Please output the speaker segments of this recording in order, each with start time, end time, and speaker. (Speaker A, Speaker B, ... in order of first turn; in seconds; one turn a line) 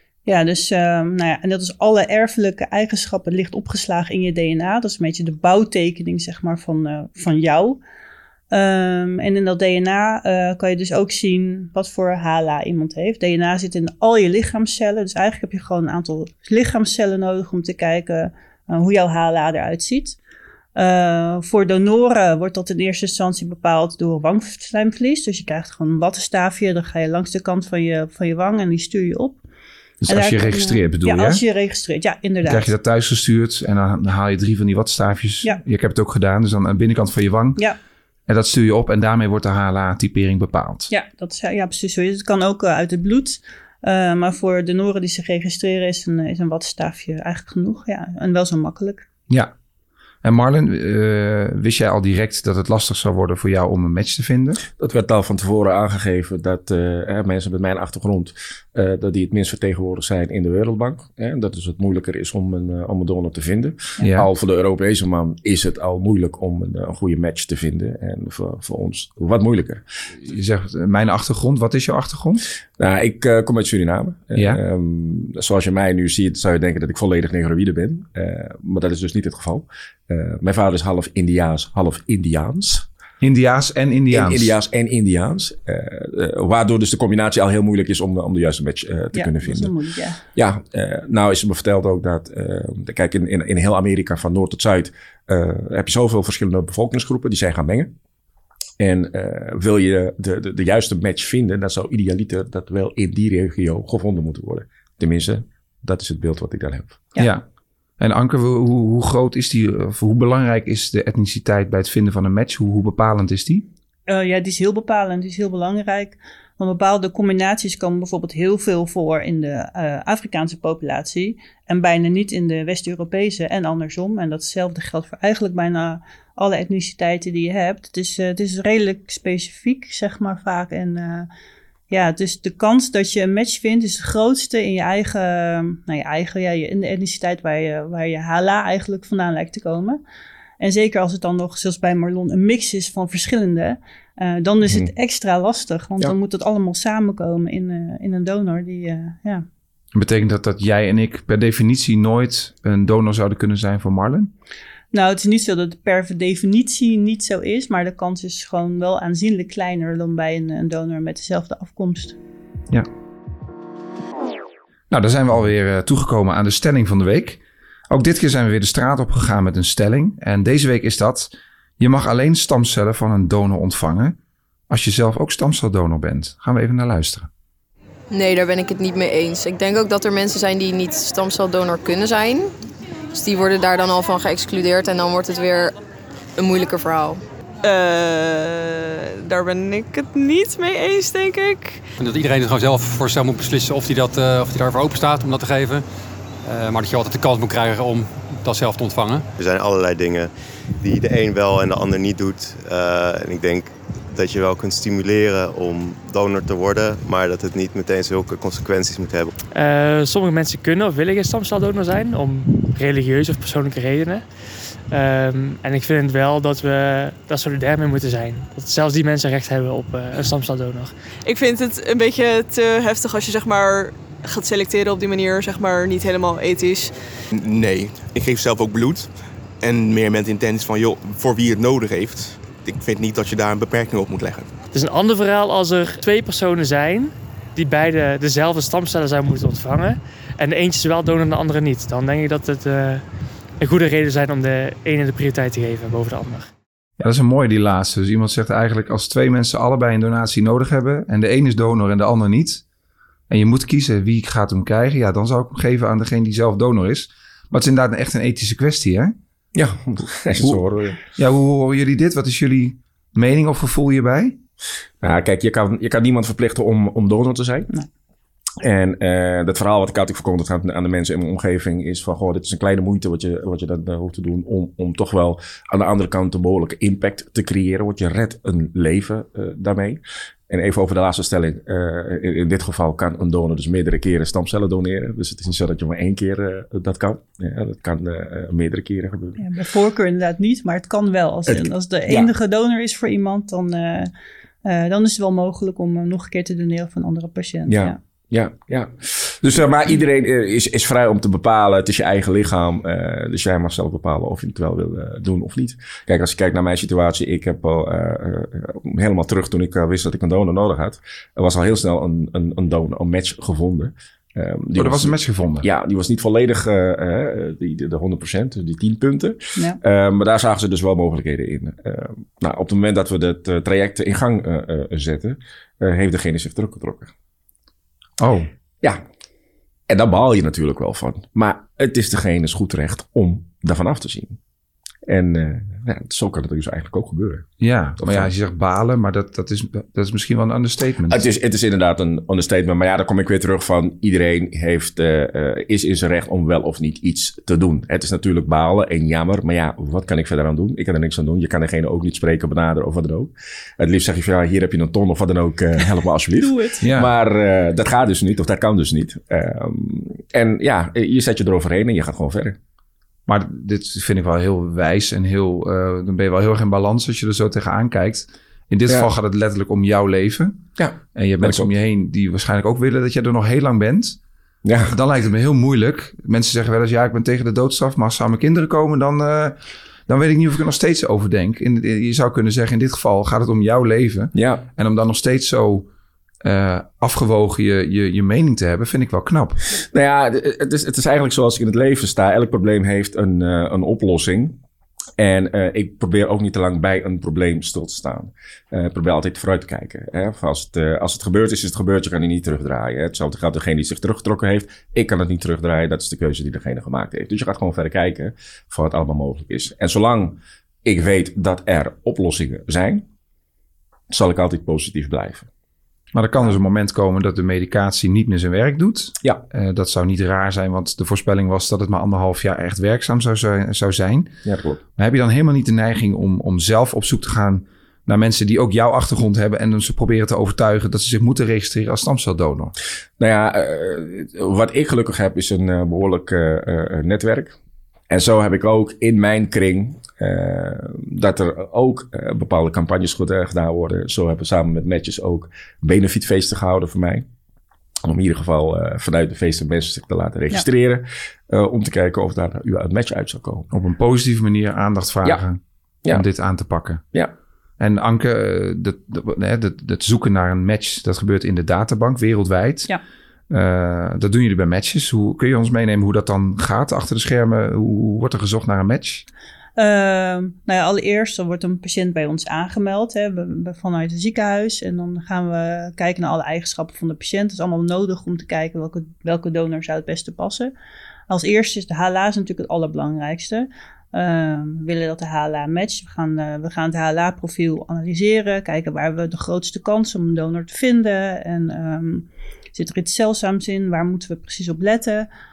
Speaker A: 0.3-7.8
Speaker A: 8.5-20.2
Speaker A: 20.8-29.4
Speaker B: 30.0-31.4
Speaker A: 30.1-32.7
Speaker B: 32.5-37.6
Speaker B: 38.3-40.9
Speaker A: 40.9-49.0
Speaker B: 50.2-54.6
Speaker C: 54.8-69.8
Speaker B: 64.0-64.3
Speaker B: 70.2-72.5
Speaker C: 72.8-82.9
Speaker B: 83.2-84.5
Speaker C: 84.1-89.7
Speaker A: 89.1-90.2
Speaker C: 90.3-97.9
Speaker C: 98.8-107.0
Speaker B: 107.2-107.4
Speaker B: 108.0-113.7
Speaker A: 114.1-131.3
Speaker A: 131.9-140.0
Speaker A: 140.6-149.5
Speaker B: 149.9-154.3
Speaker A: 154.9-162.2
Speaker B: 164.9-174.2
Speaker B: 174.7-177.3
Speaker D: 178.1-182.5
Speaker D: 183.1-185.8
Speaker D: 186.4-187.2
Speaker E: 187.6-191.9
Speaker F: 192.0-195.8
Speaker F: 196.4-199.3
Speaker G: 199.4-209.3
Speaker H: 209.5-214.3
Speaker H: 214.9-220.9
Speaker E: 221.2-226.9
Speaker I: 227.3-234.5
Speaker H: 234.7-243.1
Speaker H: 243.6-246.5
Speaker B: 247.0-252.6
Speaker B: 253.3-259.1
Speaker C: 259.5-261.0
Speaker B: 261.1-264.4
Speaker C: 265.0-267.7
Speaker C: 268.6-289.4
Speaker A: 289.4-294.1
Speaker C: 291.5-292.3
Speaker A: 294.6-298.0
Speaker C: 297.7-327.1
Speaker B: 314.8-315.7
Speaker B: 328.2-328.5
Speaker C: 329.9-334.4
Speaker C: 335.1-337.5
Speaker B: 337.6-341.2
Speaker C: 338.0-338.3
Speaker C: 341.1-362.6
Speaker A: 356.4-356.7
Speaker B: 356.8-357.1
Speaker B: 363.3-370.6
Speaker C: 370.8-371.7
Speaker B: 371.2-374.2
Speaker C: 374.6-375.0
Speaker B: 374.9-385.9
Speaker C: 384.3-384.7
Speaker B: 386.4-389.7
Speaker C: 389.8-394.6
Speaker C: 395.2-413.1
Speaker C: 414.1-415.5
Speaker B: 416.1-424.3
Speaker C: 424.4-424.8
Speaker B: 425.0-432.7
Speaker C: 433.2-437.6
Speaker C: 438.1-447.3
Speaker C: 448.0-453.7
Speaker B: 453.7-457.0
Speaker B: 457.8-462.9
Speaker B: 463.5-469.2
Speaker A: 469.8-480.7
Speaker A: 481.3-495.3